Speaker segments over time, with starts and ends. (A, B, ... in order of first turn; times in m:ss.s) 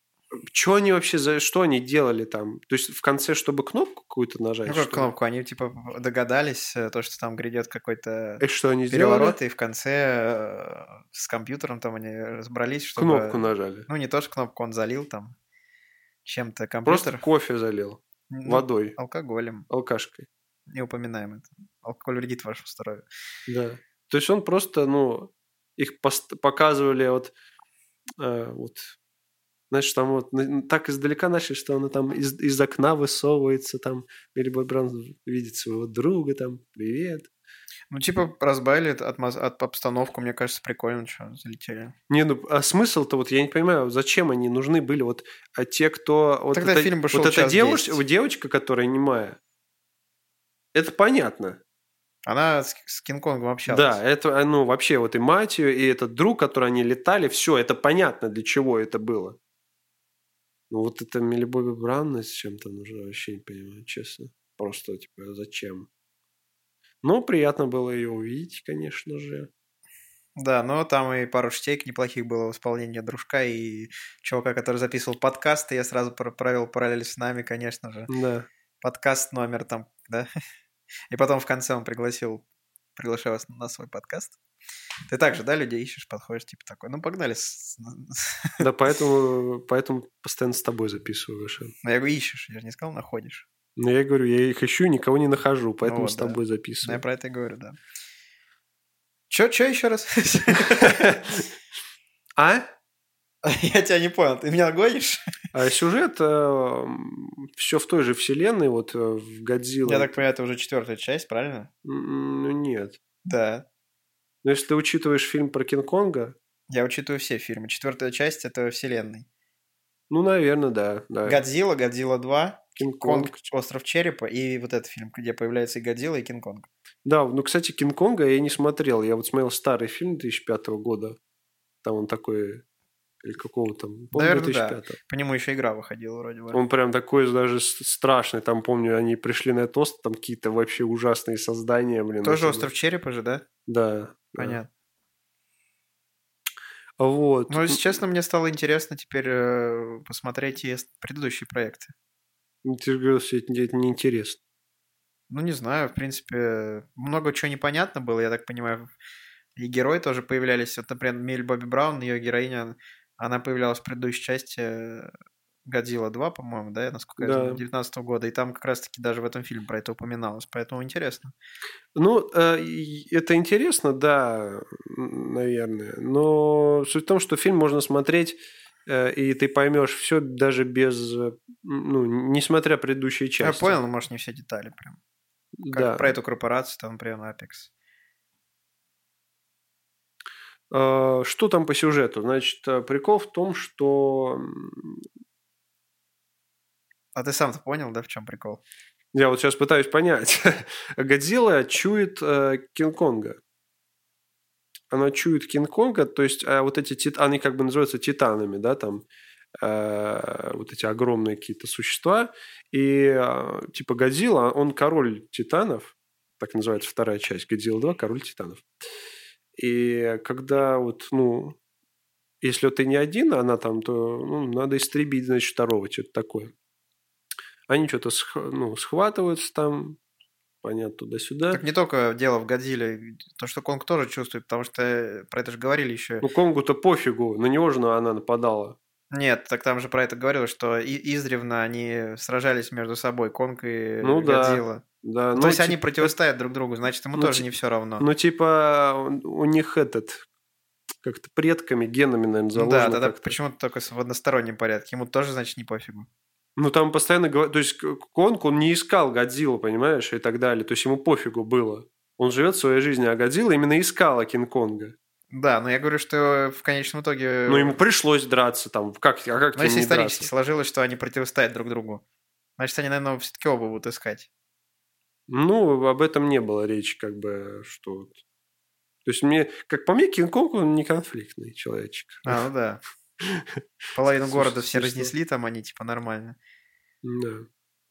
0:00.5-0:05.1 A
0:04.7-0:15.4 B
0:08.4-0:09.4 A
0:13.0-0:13.9 A
0:16.2-0:17.2 B
0:16.9-0:19.0 A
0:18.3-0:19.7 B
0:19.7-0:20.3 A
0:20.7-0:23.1 B
0:23.5-0:27.3 A
0:28.2-0:29.0 A
0:29.7-0:37.3 A
0:37.9-0:42.0 B
0:42.1-0:49.4 A
0:46.5-0:48.0 B
0:50.7-0:51.6 A
0:52.2-0:54.0 B
0:53.7-0:59.4 A
1:00.7-1:05.9 A
1:07.0-1:09.5 A
1:10.4-1:18.1 B
1:18.1-1:18.5 A
1:18.8-1:20.3 B
1:21.1-1:22.4 B
1:23.0-1:24.4 B
1:25.1-1:28.6 B
1:28.6-1:31.7 A
1:31.8-1:33.5 B
1:33.8-1:37.0 A
1:35.8-1:37.8 B
1:39.3-1:41.2 B
1:40.8-1:41.3 A
1:42.4-1:42.7 A
1:43.4-1:45.2 B
1:45.5-1:50.2 A
1:49.8-1:51.7 B
1:51.8-1:53.0 A
1:53.2-1:53.7 B
1:54.4-1:56.4 A
1:56.7-1:59.3 B
2:00.1-2:01.4 A
2:01.2-2:06.7 B
2:02.8-2:03.4 A
2:07.0-2:11.2 A
2:11.8-2:12.6 A
2:13.2-2:15.0 A
2:14.1-2:16.6 B
2:16.5-2:22.7 A
2:22.2-2:23.4 B
2:23.7-2:24.6 A
2:24.4-2:24.7 B
2:27.0-2:27.9 A
2:27.5-2:31.9 B
2:32.6-2:34.4 A
2:35.3-2:38.9 B
2:39.6-2:45.1 B
2:45.6-2:51.3 B
2:47.2-2:47.6 A
2:52.0-3:03.8 A
3:03.4-3:05.0 B
3:05.6-3:06.2 A
3:05.7-3:07.7 B
3:10.7-3:15.0 A
3:17.2-3:18.6 B
3:19.1-3:23.4 A
3:24.9-3:29.0 A
3:29.6-3:38.7 A
3:39.6-3:41.6 A
3:42.4-3:46.5 A
3:47.7-3:50.0 A
3:50.6-3:51.6 A
3:51.5-3:56.3 B
3:56.2-3:58.8 A
3:59.1-4:04.8 B
4:04.0-4:06.2 A
4:05.4-4:08.1 B
4:07.2-4:07.5 A
4:08.0-4:10.2 A
4:11.0-4:13.4 A
4:12.6-4:16.1 B
4:16.6-4:25.0 A
4:25.3-4:27.8 B
4:27.5-4:30.3 A
4:29.6-4:32.0 B
4:32.6-4:34.3 B
4:35.3-4:38.2 A
4:39.0-4:42.4 A
4:42.2-4:42.8 B
4:43.2-4:43.6 A
4:44.0-4:46.4 B
4:44.3-4:45.1 A
4:47.0-4:47.5 A